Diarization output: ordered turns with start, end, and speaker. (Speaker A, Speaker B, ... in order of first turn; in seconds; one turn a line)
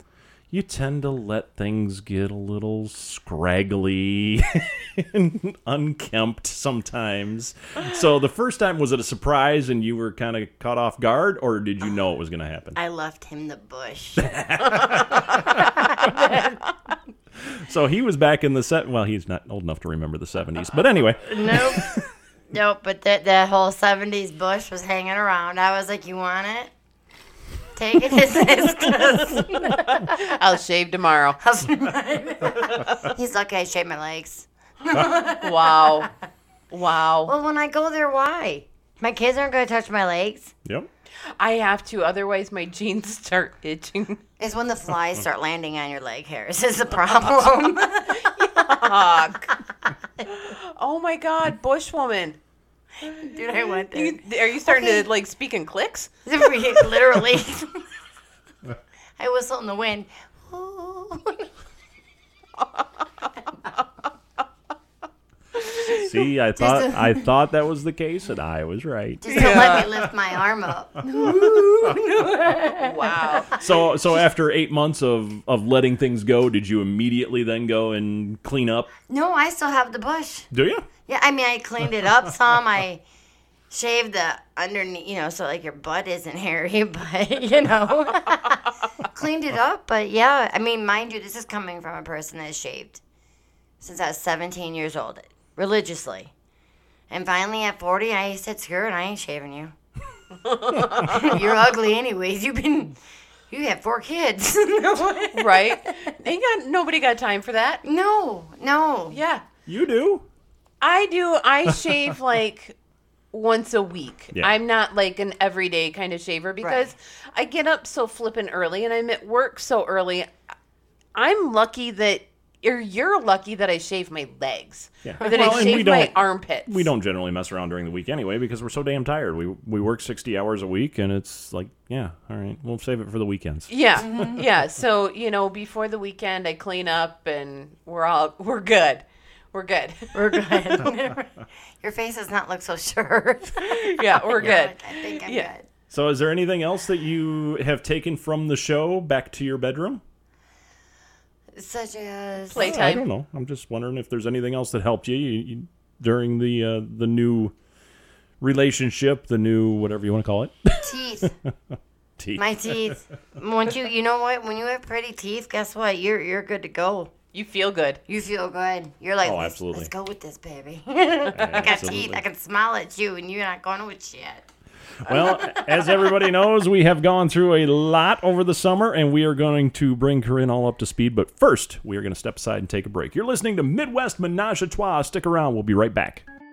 Speaker A: 0.5-12.8
Speaker B: 12.8-16.6
Speaker A: 14.2-15.7
Speaker A: 17.4-22.1
Speaker B: 21.2-26.7
Speaker B: 27.8-30.3
Speaker C: 29.8-31.4
Speaker B: 31.4-36.1
Speaker C: 35.4-36.1
Speaker C: 36.7-37.3
Speaker B: 37.2-40.5
Speaker C: 41.4-44.2
Speaker B: 44.4-49.1
Speaker C: 48.1-49.6
Speaker B: 49.8-50.3
Speaker C: 50.3-52.4
Speaker C: 53.0-56.1
Speaker B: 53.1-55.1
Speaker B: 56.3-57.9
Speaker B: 59.2-61.5
Speaker C: 65.6-66.0
Speaker A: 65.9-70.1
Speaker B: 66.6-67.3
Speaker B: 69.2-73.7
Speaker C: 69.3-69.9
Speaker A: 71.2-71.9
Speaker C: 72.8-73.6
Speaker A: 73.6-78.9
Speaker B: 79.1-80.5
Speaker A: 80.5-80.9
Speaker B: 81.1-83.0
Speaker B: 83.7-93.0
Speaker B: 93.8-96.3
Speaker B: 97.1-99.7
Speaker C: 100.4-101.3
Speaker B: 101.0-103.0
Speaker B: 103.5-106.1
Speaker C: 105.3-107.8
Speaker B: 107.8-109.2
Speaker C: 109.1-109.4
Speaker A: 109.7-110.3
Speaker C: 110.8-112.8
Speaker C: 113.3-120.3
Speaker B: 116.6-116.9
Speaker C: 121.2-126.9
Speaker A: 125.0-133.7
Speaker B: 125.2-125.8
Speaker C: 133.7-140.8
Speaker B: 134.0-134.4
Speaker B: 140.1-145.7
Speaker C: 143.6-145.5
Speaker A: 145.9-150.0
Speaker B: 151.6-152.8
Speaker C: 152.5-153.1
Speaker A: 152.6-157.5
Speaker A: 158.4-161.3
Speaker B: 160.8-161.3
Speaker A: 162.2-163.0
Speaker B: 162.4-167.1
Speaker C: 167.3-168.0
Speaker B: 168.1-174.5
Speaker A: 169.2-169.9
Speaker A: 171.3-172.2
Speaker A: 175.1-186.2